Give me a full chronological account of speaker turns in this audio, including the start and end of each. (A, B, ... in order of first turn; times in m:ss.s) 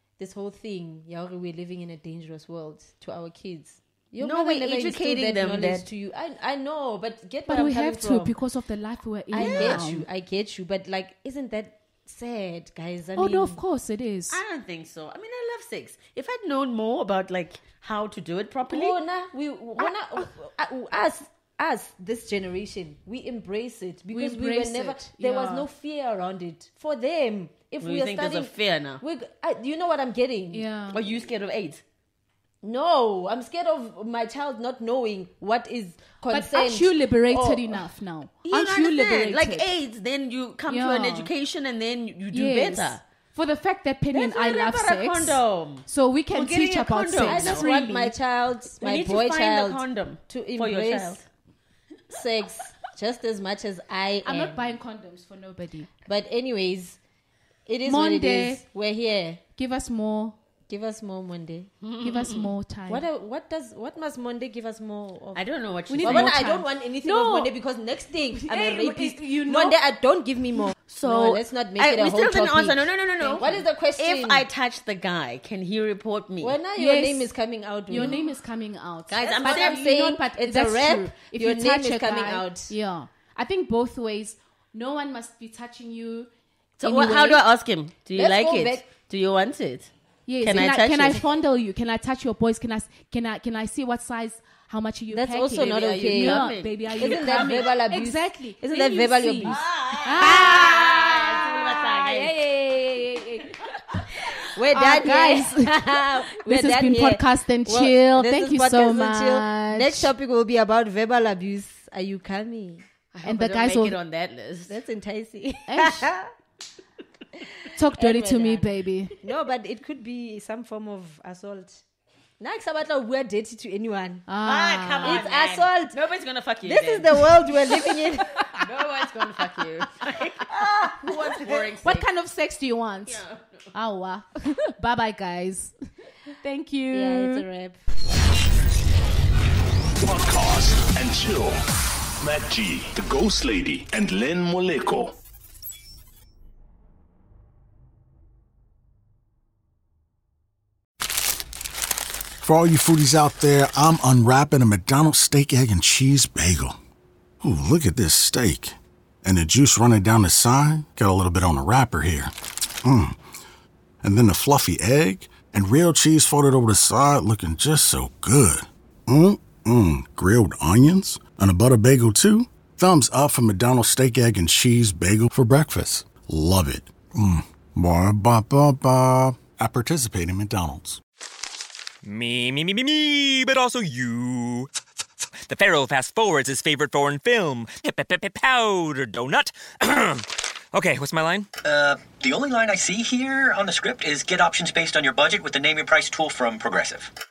0:00.2-0:08.3 A
0:04.2-0:05.9 B
0:07.5-0:10.0 C
0:09.3-0:13.6 A
0:09.3-0:09.9 B
0:13.2-0:14.4 C
0:14.3-0:19.0 B
0:18.7-0:30.6 A
0:24.1-0:25.7 C
0:27.8-0:29.0 B
0:30.5-0:31.0 C
0:30.9-0:31.8 B
0:32.6-0:37.8 A
0:36.3-0:39.7 C
0:38.4-0:43.0 B
0:40.7-0:41.3 C
0:42.3-0:48.1 C
0:44.1-0:47.6 B
0:47.2-0:51.2 A
0:48.8-0:51.2 B
0:52.1-0:54.7 A
0:54.2-0:55.9 C
0:56.0-0:57.0 A
0:57.6-0:59.4 A
0:57.8-0:58.6 C
0:59.6-1:00.4 C
1:00.7-1:01.7 A
1:01.8-1:02.5 B
1:02.0-1:03.0 C
1:02.9-1:05.4 A
1:05.3-1:06.5 B
1:05.9-1:07.5 C
1:05.9-1:14.4 A
1:08.3-1:09.8 C
1:10.9-1:16.6 B
1:16.4-1:18.2 A
1:16.8-1:17.3 C
1:17.9-1:26.3 C
1:18.0-1:18.2 B
1:19.1-1:19.8 B
1:19.2-1:22.7 A
1:26.8-1:29.9 B
1:26.8-1:27.4 A
1:28.1-1:28.8 A
1:30.3-1:40.6 C
1:30.4-1:31.2 B
1:35.1-1:43.5 A
1:35.6-1:37.7 B
1:39.4-1:42.3 B
1:44.5-1:52.8 A
1:44.7-1:50.1 C
1:53.1-1:54.8 B
1:53.2-1:54.0 C
1:54.7-1:56.3 A
1:55.7-1:56.0 C
1:57.7-1:59.2 C
1:57.9-1:58.7 A
1:59.2-2:01.8 A
2:02.4-2:04.2 A
2:04.3-2:05.2 C
2:04.4-2:07.3 B
2:05.0-2:06.0 A
2:06.6-2:08.5 A
2:08.5-2:12.1 B
2:11.0-2:11.6 A
2:11.8-2:15.7 C
2:13.1-2:13.7 B
2:16.3-2:17.4 C
2:16.9-2:17.8 A
2:20.0-2:21.6 D
2:22.2-2:25.2 D
2:32.4-2:36.8 E
2:37.4-2:42.3 E
2:42.8-2:43.2 E
2:44.0-3:01.0 E
3:02.0-3:04.7 F
3:05.4-3:11.5 F
3:11.6-3:17.1 G